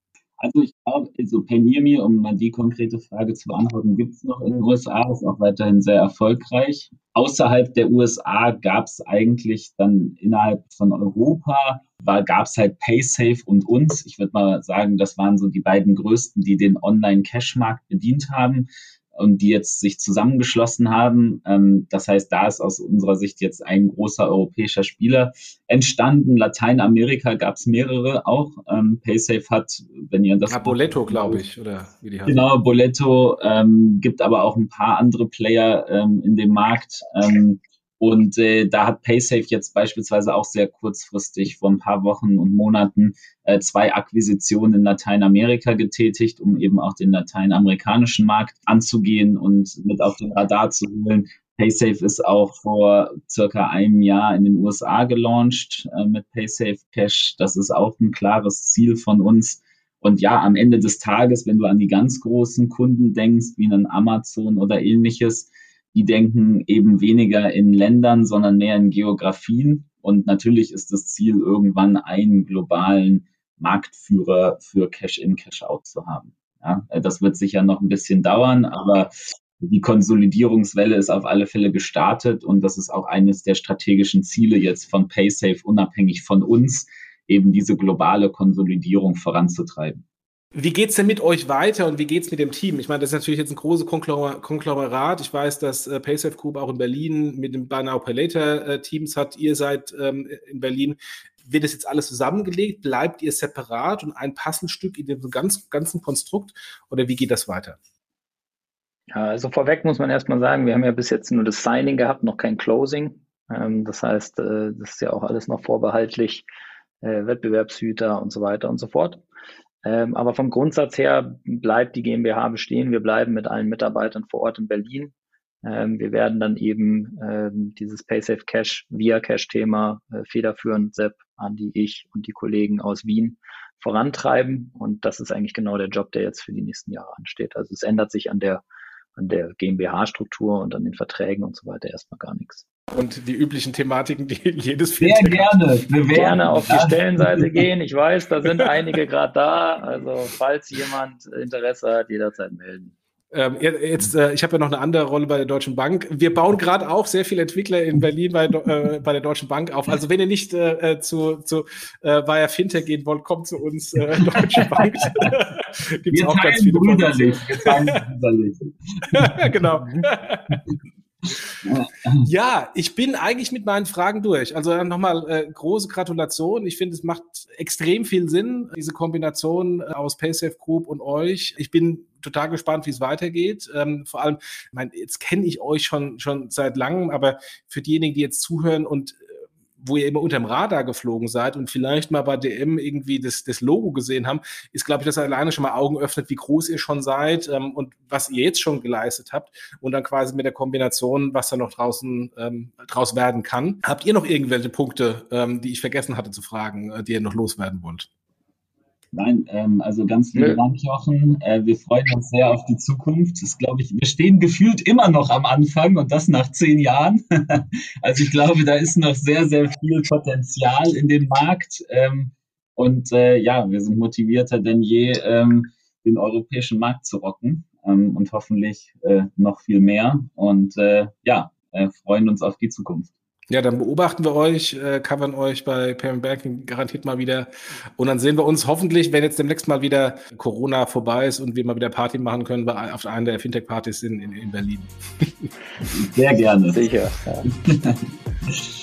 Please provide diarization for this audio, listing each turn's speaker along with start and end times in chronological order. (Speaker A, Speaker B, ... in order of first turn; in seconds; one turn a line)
Speaker A: 0.4-31.4
Speaker B: 30.5-32.4
Speaker A: 32.3-90.0
Speaker B: 90.5-107.8
Speaker C: 109.1-116.5
Speaker C: 117.0-119.2
Speaker C: 119.8-138.6
Speaker C: 139.2-142.6
Speaker B: 142.9-145.6
Speaker A: 145.0-147.7
Speaker C: 146.1-152.9
Speaker B: 153.3-168.0
Speaker A: 164.4-164.9
Speaker A: 166.1-169.6
Speaker B: 169.1-170.6
Speaker A: 171.7-172.3
Speaker B: 172.2-189.2
Speaker B: 189.8-208.1
Speaker A: 209.1-233.1
Speaker C: 210.3-210.6
Speaker B: 233.5-245.5
Speaker A: 245.9-246.8
Speaker C: 246.7-247.5
Speaker A: 247.5-248.6